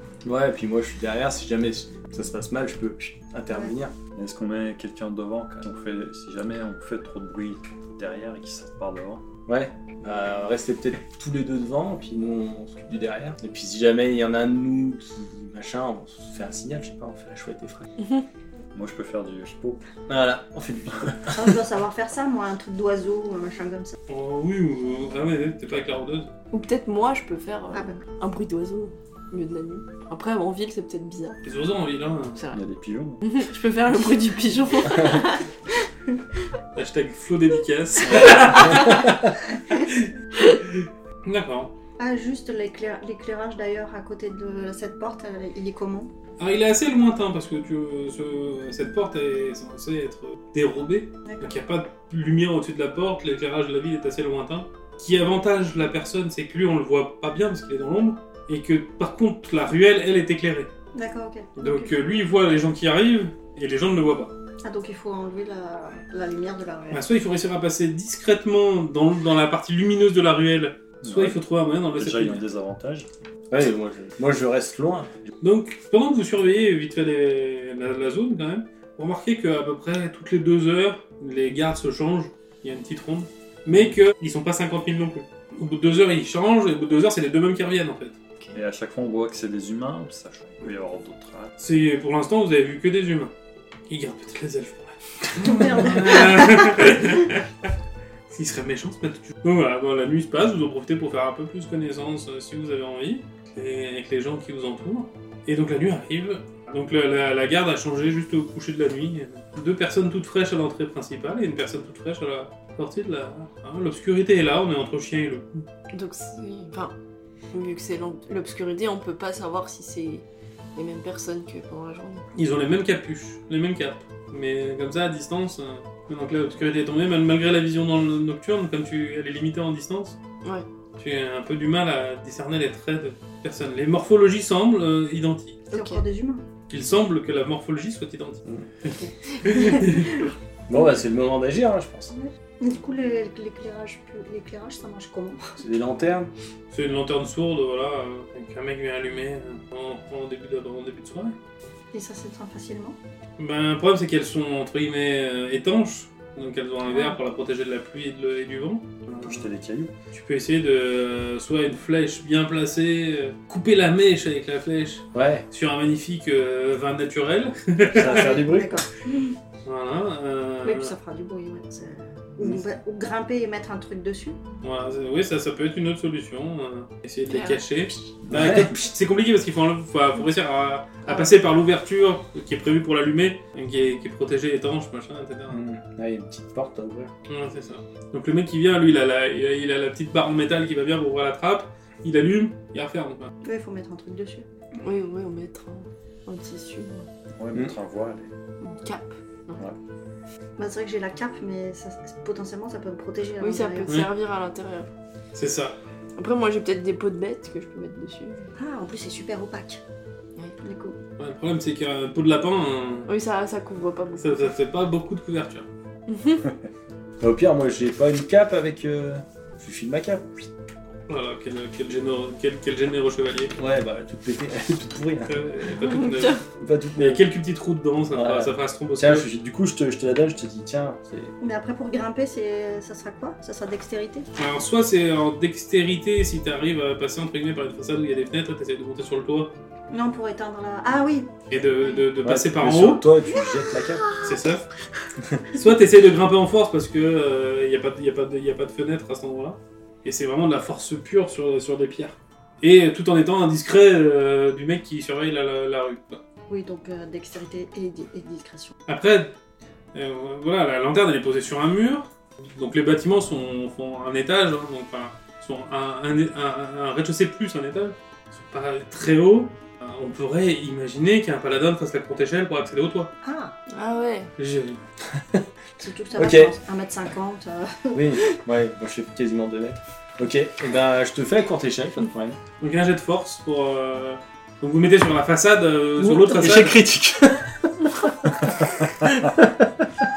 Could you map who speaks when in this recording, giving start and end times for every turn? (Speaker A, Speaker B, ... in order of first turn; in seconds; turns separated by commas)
Speaker A: 0.2-4.0, Speaker B: 4.1-9.2, Speaker A: 9.5-17.9, Speaker B: 18.7-19.8, Speaker A: 20.1-21.6, Speaker C: 21.3-24.0, Speaker D: 24.1-26.3, Speaker E: 26.5-31.4, Speaker C: 27.7-28.0, Speaker D: 31.4-32.4, Speaker B: 32.5-33.2, Speaker E: 33.2-35.4, Speaker D: 36.8-39.2, Speaker E: 38.1-39.0, Speaker B: 38.2-38.6, Speaker A: 38.9-39.2, Speaker D: 39.8-41.7, Speaker C: 42.0-46.1, Speaker D: 46.4-60.7, Speaker C: 60.9-62.0, Speaker D: 61.6-64.3, Speaker C: 64.6-67.0, Speaker D: 66.9-72.4, Speaker B: 71.0-71.4, Speaker B: 71.9-73.1, Speaker A: 73.5-75.1, Speaker D: 75.4-88.2, Speaker B: 88.5-91.5, Speaker D: 91.6-93.3, Speaker D: 93.9-97.7, Speaker C: 95.4-97.0, Speaker D: 98.3-115.6, Speaker E: 115.9-116.9, Speaker E: 117.5-120.2, Speaker E: 120.8-122.2, Speaker D: 122.3-130.2, Speaker D: 131.0-135.6, Speaker C: 135.7-136.4, Speaker E: 135.7-136.0, Speaker D: 136.7-140.3, Speaker C: 139.0-140.2, Speaker A: 140.7-142.1, Speaker C: 142.1-145.4, Speaker A: 145.6-146.3, Speaker D: 146.7-151.3, Speaker C: 151.9-153.0, Speaker D: 153.4-159.5, Speaker B: 159.2-159.9, Speaker D: 160.1-168.4, Speaker A: 165.1-165.4, Speaker A: 167.9-168.8, Speaker C: 167.9-169.3, Speaker D: 169.6-170.9, Speaker C: 170.6-174.4, Speaker D: 174.6-185.6, Speaker E: 177.3-177.6, Speaker A: 178.3-178.8, Speaker A: 185.5-187.1, Speaker D: 187.3-193.3, Speaker C: 193.4-194.4, Speaker E: 194.8-197.1, Speaker B: 197.3-198.3, Speaker E: 198.8-199.6, Speaker C: 200.6-204.0, Speaker E: 203.4-204.9, Speaker D: 205.3-205.8, Speaker E: 206.2-208.5, Speaker C: 208.6-209.8, Speaker C: 210.6-211.0, Speaker D: 211.2-213.1, Speaker E: 213.1-214.5, Speaker D: 214.2-215.7, Speaker E: 216.1-216.4, Speaker A: 217.2-220.3, Speaker D: 221.1-223.5, Speaker A: 223.6-225.4, Speaker D: 225.3-226.4, Speaker E: 225.8-226.4, Speaker A: 226.6-227.2, Speaker D: 227.0-229.2, Speaker A: 228.1-231.3, Speaker C: 231.4-234.3, Speaker D: 234.4-239.5, Speaker C: 239.9-242.0, Speaker D: 241.5-243.0, Speaker A: 242.2-244.0, Speaker D: 244.2-244.6, Speaker D: 245.5-256.2, Speaker C: 256.5-258.7, Speaker D: 258.9-259.4, Speaker D: 259.9-273.1, Speaker C: 273.2-273.5, Speaker E: 273.7-274.3, Speaker D: 274.4-274.8, Speaker C: 275.8-278.2, Speaker A: 276.1-276.5, Speaker A: 277.9-282.4, Speaker D: 282.6-286.8, Speaker A: 286.0-287.9, Speaker A: 289.0-289.7